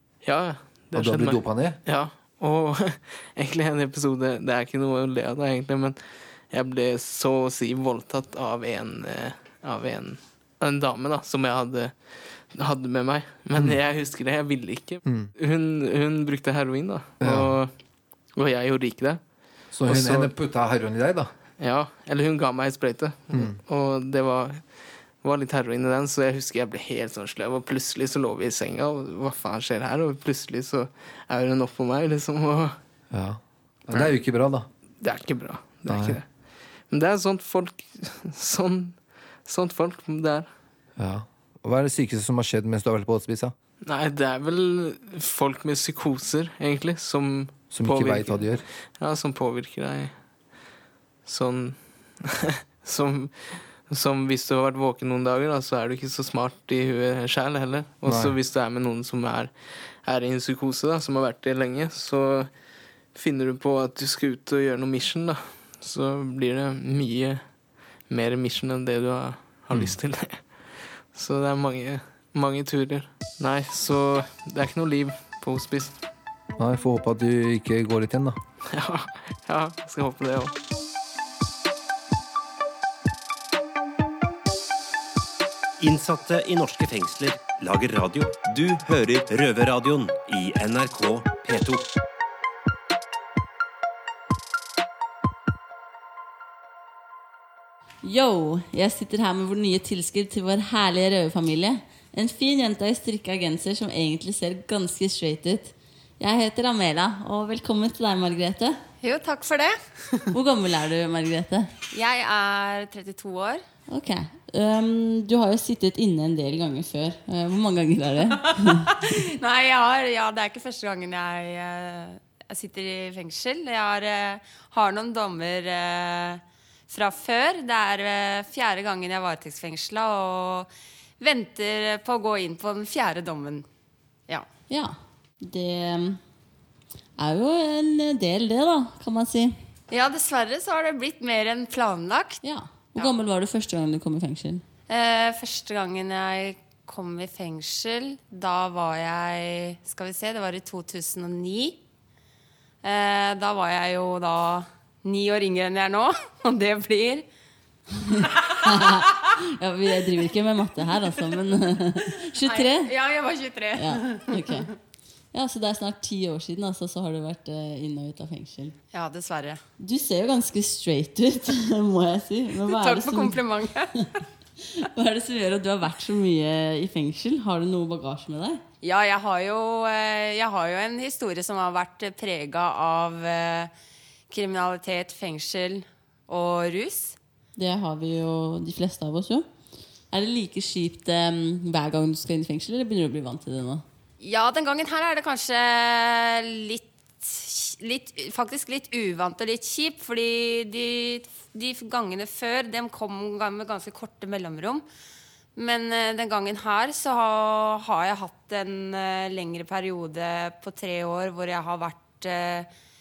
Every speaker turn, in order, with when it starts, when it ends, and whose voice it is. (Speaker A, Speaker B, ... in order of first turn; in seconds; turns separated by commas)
Speaker A: 0.2-6.0, Speaker B: 0.9-1.8, Speaker A: 6.5-17.7, Speaker B: 15.1-15.3, Speaker B: 17.2-17.6, Speaker A: 18.4-19.2, Speaker B: 19.7-21.3, Speaker A: 19.9-20.3, Speaker A: 21.6-24.7, Speaker B: 23.3-23.6, Speaker A: 25.2-32.8, Speaker B: 33.1-34.7, Speaker A: 35.0-36.3, Speaker B: 35.9-36.2, Speaker A: 36.9-40.5, Speaker B: 41.0-43.5, Speaker A: 43.8-50.1, Speaker B: 47.7-48.6, Speaker A: 51.3-62.5, Speaker B: 58.0-58.4, Speaker A: 63.1-67.4, Speaker A: 68.1-76.0, Speaker B: 76.6-78.4, Speaker A: 78.7-80.5, Speaker C: 85.8-91.9, Speaker D: 98.0-108.8, Speaker E: 109.0-110.2, Speaker D: 110.3-111.7, Speaker E: 111.9-113.6, Speaker D: 113.9-118.9, Speaker E: 118.4-133.7, Speaker D: 134.7-136.2, Speaker D: 137.2-139.6, Speaker E: 139.9-142.4, Speaker D: 142.4-144.6, Speaker E: 144.9-151.8, Speaker E: 152.8-157.3, Speaker D: 158.0-162.9, Speaker E: 158.2-159.2, Speaker E: 162.4-164.7, Speaker D: 163.8-164.7, Speaker D: 165.3-168.8, Speaker E: 168.9-169.6, Speaker D: 169.8-173.4, Speaker E: 172.6-173.9, Speaker D: 173.9-178.6, Speaker E: 178.8-183.7, Speaker E: 184.3-187.2, Speaker D: 187.6-189.5, Speaker D: 190.1-193.8, Speaker E: 194.2-204.8, Speaker E: 205.6-212.7